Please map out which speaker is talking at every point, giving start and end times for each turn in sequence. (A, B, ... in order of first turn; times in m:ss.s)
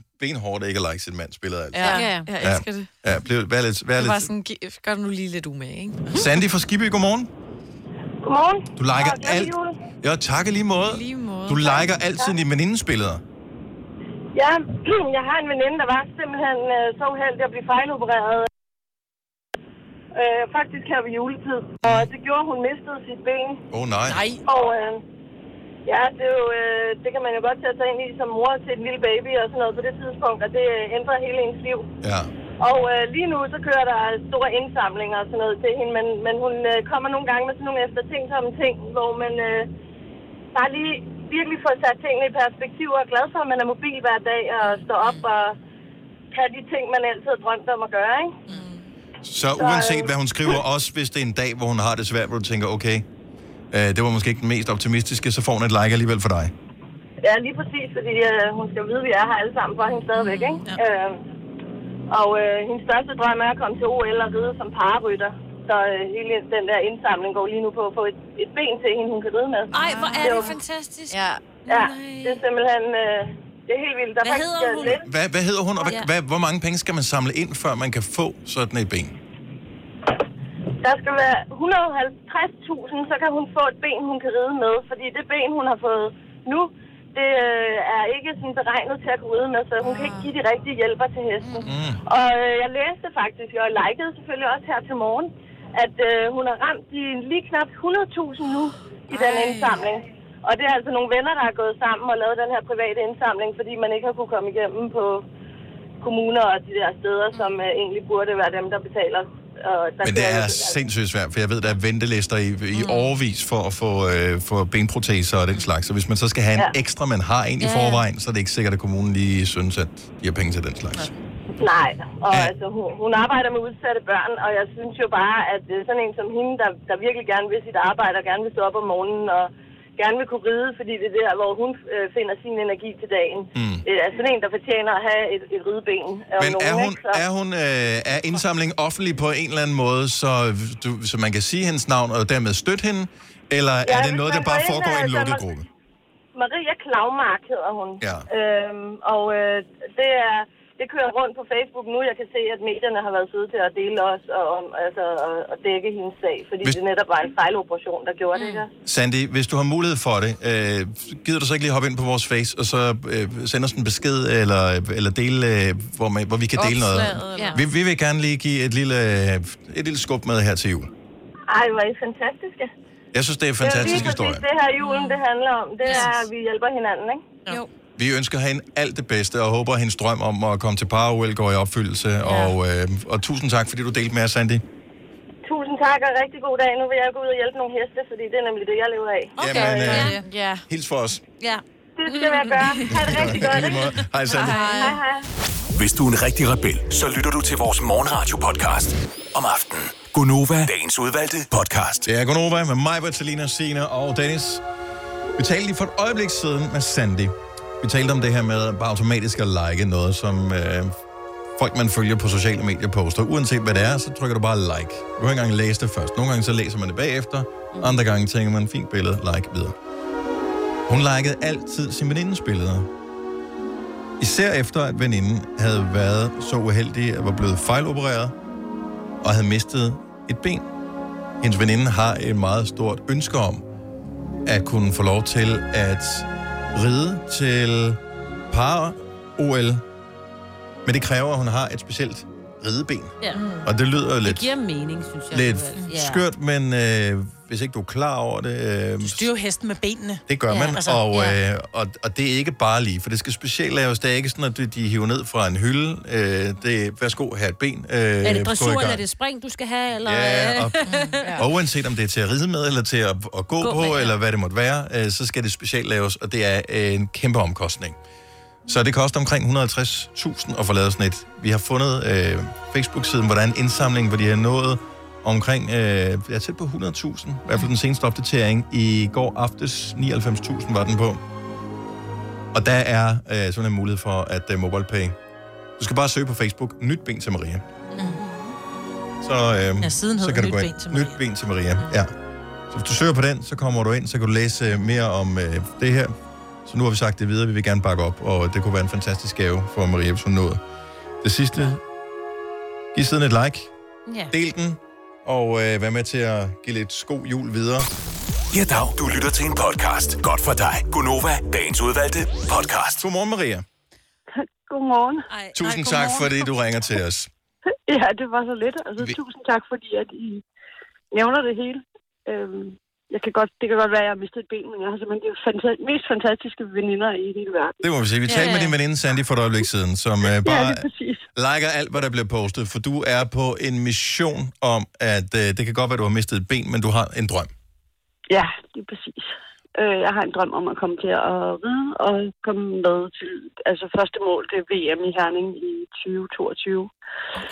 0:00.2-0:04.3 A
0:01.7-0:02.9 B
0:01.8-0:02.3 C
0:04.0-0:06.2 B
0:06.1-0:07.3 A
0:08.2-0:09.7 D
0:08.8-0:13.2 A
0:10.9-0:11.9 B
0:11.6-0:12.4 D
0:14.3-0:18.5 D
0:20.1-0:23.6 D
0:21.8-0:22.1 A
0:23.7-0:24.2 A
0:24.1-0:24.4 E
0:24.5-0:25.0 D
0:25.9-0:31.9 D
0:32.0-0:32.3 A
0:32.6-0:39.7 D
0:40.5-0:45.6 D
0:44.6-0:45.3 E
0:46.3-0:48.4 D
0:48.5-0:48.8 B
0:49.2-0:53.0 A
0:49.6-0:50.6 D
0:53.7-0:56.5 A
0:57.2-1:01.2 D
1:00.2-1:00.8 E
1:02.1-1:10.5 D
1:09.7-1:12.4 C
1:09.7-1:10.3 E
1:11.1-1:11.6 B
1:11.7-1:15.0 D
1:14.2-1:15.0 C
1:15.0-1:19.2 A
1:20.8-1:45.3 D
1:29.8-1:30.3 B
1:31.7-1:32.0 A
1:39.1-1:39.8 B
1:46.0-1:50.8 D
1:50.0-2:01.1 A
1:57.6-1:58.0 C
2:01.6-2:17.2 D
2:13.6-2:13.8 A
2:16.4-2:25.7 A
2:23.8-2:25.4 D
2:26.4-2:38.7 D
2:28.0-2:28.3 A
2:38.8-2:50.9 A
2:46.6-2:47.6 B
2:51.5-2:52.7 D
2:53.1-2:54.4 A
2:53.6-2:57.2 D
2:55.9-2:56.2 E
2:58.0-3:04.6 A
3:05.4-3:09.9 D
3:09.4-3:10.2 A
3:09.4-3:10.2 C
3:09.5-3:10.2 E
3:10.2-3:10.6 B
3:10.7-3:11.2 A
3:12.0-3:13.9 D
3:12.1-3:12.8 C
3:12.9-3:14.7 A
3:14.4-3:14.9 B
3:14.5-3:15.0 E
3:14.6-3:15.2 D
3:15.8-3:22.1 F
3:22.1-3:24.6 A
3:25.4-3:31.0 A
3:31.6-3:39.8 A
3:40.9-3:42.9 A
3:44.2-3:48.4 A
3:49.2-3:50.7 A
3:51.4-3:53.6 A
3:54.5-3:58.0 A
3:58.5-3:59.8 A
4:00.8-4:04.5 A
4:03.4-4:03.6 B
4:04.2-4:06.2 C
4:05.3-4:09.3 A
4:09.0-4:10.2 E
4:10.3-4:19.0 A
4:10.5-4:11.4 C
4:18.2-4:21.2 C
4:20.0-4:20.8 A
4:20.9-4:21.2 E
4:21.2-4:21.5 B
4:21.3-4:28.0 A
4:23.6-4:24.2 C
4:28.7-4:41.2 A
4:42.5-4:45.2 A
4:45.8-4:47.6 A
4:48.0-4:48.2 E
4:48.0-4:48.5 C
4:49.2-4:52.1 A
4:49.8-4:51.2 E
4:52.7-4:56.1 A
4:56.7-5:00.6 A
5:01.2-5:01.8 A
5:02.9-5:03.7 A
5:04.3-5:07.9 A
5:08.5-5:13.0 F
5:13.0-5:13.6 A
5:14.4-5:15.3 G
5:15.6-5:17.3 A
5:15.6-5:16.4 E
5:17.9-5:20.4 G
5:21.1-5:27.8 G
5:27.8-5:37.5 A
5:28.3-5:28.6 E
5:30.4-5:31.3 G
5:38.3-5:46.9 G